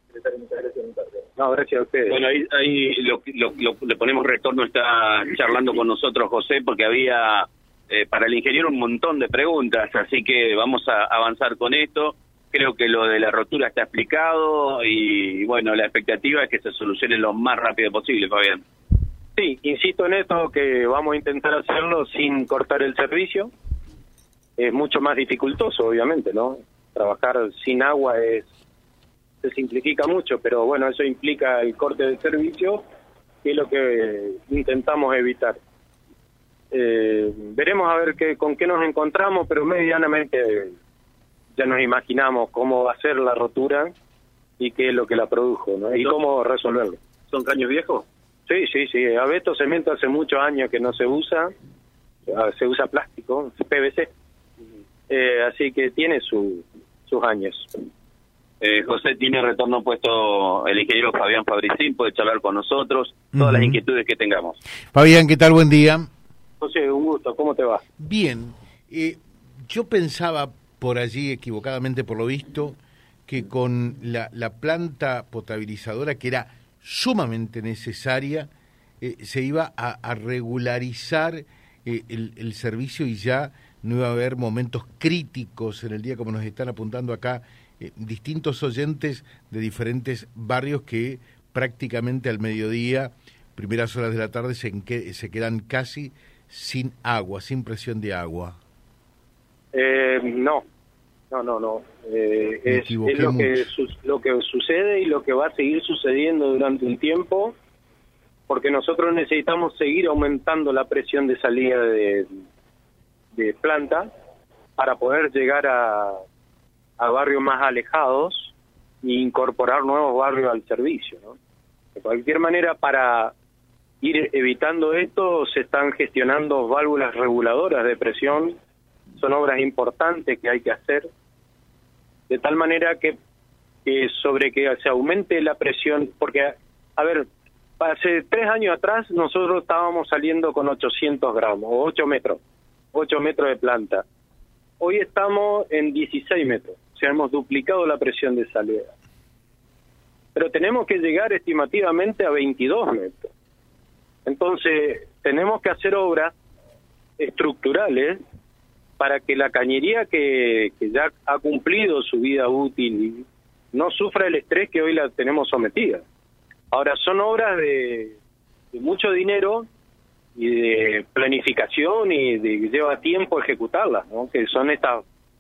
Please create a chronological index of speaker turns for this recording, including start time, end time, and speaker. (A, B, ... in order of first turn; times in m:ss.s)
0:00.3-0:02.2 A
0:02.1-0:18.6 B
0:19.4-0:23.5 A
0:24.6-0:28.5 A
0:29.4-0:32.8 A
0:33.4-0:35.6 A
0:36.7-0:40.8 A
0:41.6-0:43.9 A
0:44.6-0:47.0 A
0:47.3-0:48.0 B
0:48.5-0:51.5 A
0:52.3-0:54.1 A
0:55.1-0:57.7 A
0:58.6-1:04.6 B
1:03.4-1:03.8 C
1:04.9-1:06.1 C
1:06.6-1:07.8 A
1:08.0-1:18.5 C
1:19.0-1:38.6 C
1:39.7-1:40.6 A
1:41.3-1:47.5 A
1:42.7-1:43.7 C
1:48.5-1:52.4 A
1:53.4-1:54.1 A
1:54.8-1:56.2 A
1:57.0-2:01.4 A
2:02.0-2:03.3 A
2:04.0-2:08.6 A
2:09.2-2:11.1 A
2:12.3-2:13.2 A
2:13.8-2:17.3 A
2:17.8-2:22.4 A
2:22.9-2:24.0 A
2:24.8-2:28.9 A
2:30.4-2:33.3 A
2:34.2-2:36.3 A
2:37.2-2:38.2 A
2:39.0-2:46.0 A
2:46.7-2:48.2 A
2:48.7-2:49.7 A
2:50.4-2:55.0 A